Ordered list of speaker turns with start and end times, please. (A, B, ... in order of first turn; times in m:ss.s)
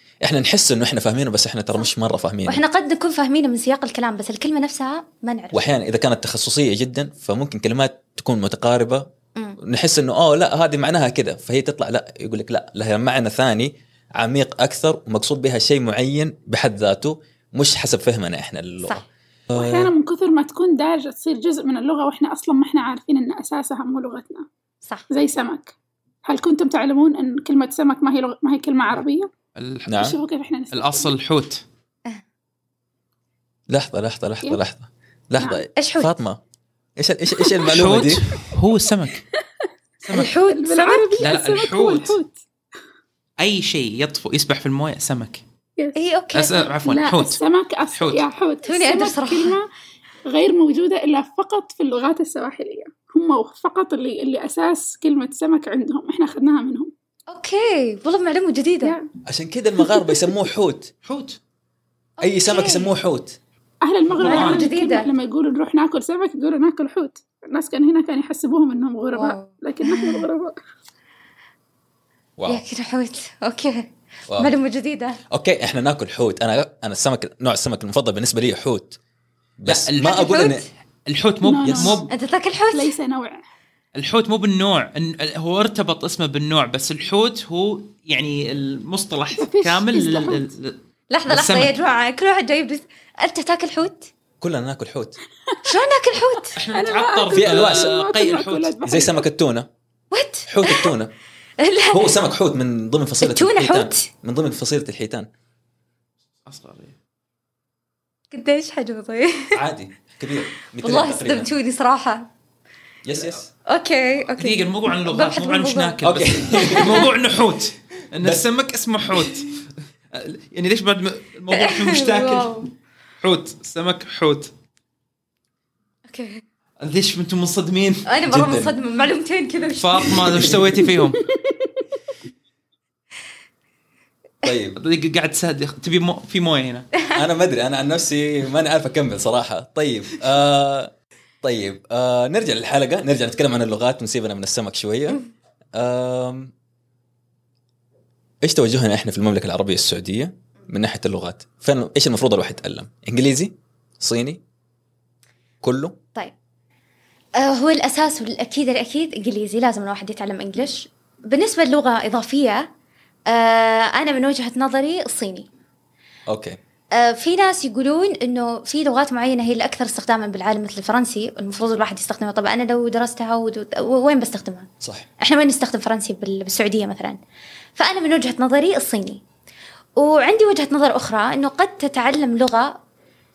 0:00.2-0:02.6 A
0:02.5-0:05.6 B
0:05.5-0:09.0 A
0:09.6-0:19.9 A
0:19.5-0:24.4 C
0:25.1-0:25.7 C
0:26.2-0:29.3 C
0:29.6-0:30.0 D
0:29.8-0:30.2 A
0:29.9-0:31.1 C
0:30.7-0:31.6 D
0:33.7-0:36.4 A
0:35.4-0:35.6 C
0:35.8-0:36.1 B
0:37.0-0:38.4 A
0:37.4-0:37.7 C
0:37.7-0:39.2 D
0:40.0-0:40.4 D
0:40.1-0:41.3 B
0:40.4-0:42.4 C
0:41.2-0:42.2 D
0:43.4-0:45.4 D
0:45.8-0:46.0 C
0:45.9-0:46.7 B
0:46.3-0:47.4 D
0:46.8-0:49.7 C
0:47.9-0:48.3 D
0:48.6-0:49.6 B
0:50.3-0:56.9 C
0:57.3-0:58.9 B
0:58.8-0:59.1 C
0:59.2-1:00.9 A
1:01.0-1:01.4 D
1:02.2-1:02.9 B
1:02.2-1:03.4 A
1:03.8-1:10.5 C
1:04.1-1:04.7 D
1:04.2-1:05.1 B
1:09.1-1:10.2 B
1:12.4-1:12.6 A
1:12.5-1:15.2 B
1:15.3-1:19.0 A
1:19.6-1:20.6 A
1:19.6-1:20.3 D
1:20.0-1:20.7 B
1:21.1-1:22.1 D
1:21.4-1:22.1 C
1:21.6-1:22.0 A
1:22.1-1:22.9 B
1:22.7-1:23.4 C
1:23.9-1:31.7 D
1:29.4-1:30.4 C
1:31.1-1:34.1 B
1:34.4-1:35.2 A
1:35.6-1:36.6 B
1:36.6-1:38.7 D
1:36.7-1:39.2 C
1:37.3-1:38.1 A
1:38.8-1:39.7 A
1:40.1-1:40.9 B
1:40.5-1:41.1 A
1:41.6-1:42.2 B
1:41.9-1:45.3 A
1:43.2-1:44.1 B
1:46.5-1:47.0 D
1:48.3-1:49.6 B
1:49.5-1:51.5 A
1:50.8-1:52.3 B
1:53.0-1:53.5 A
1:53.6-1:55.9 B
1:54.3-1:59.6 D
1:56.0-1:57.1 A
1:56.5-1:57.1 B
2:00.1-2:02.6 D
2:01.5-2:02.7 B
2:03.2-2:04.5 D
2:06.1-2:06.4 B
2:06.8-2:08.1 D
2:08.0-2:10.5 B
2:08.3-2:08.7 A
2:09.6-2:11.2 D
2:10.3-2:10.6 A
2:14.4-2:14.8 A
2:14.8-2:16.9 D
2:17.1-2:20.9 A
2:21.4-2:25.2 A
2:25.7-2:26.5 A
2:28.4-2:34.4 A
2:35.6-2:36.0 A
2:37.4-2:42.7 B
2:43.3-2:45.5 B
2:46.3-2:46.6 A
2:46.9-2:57.2 B
2:54.8-2:55.1 A
2:57.8-2:59.2 B
3:00.0-3:02.8 B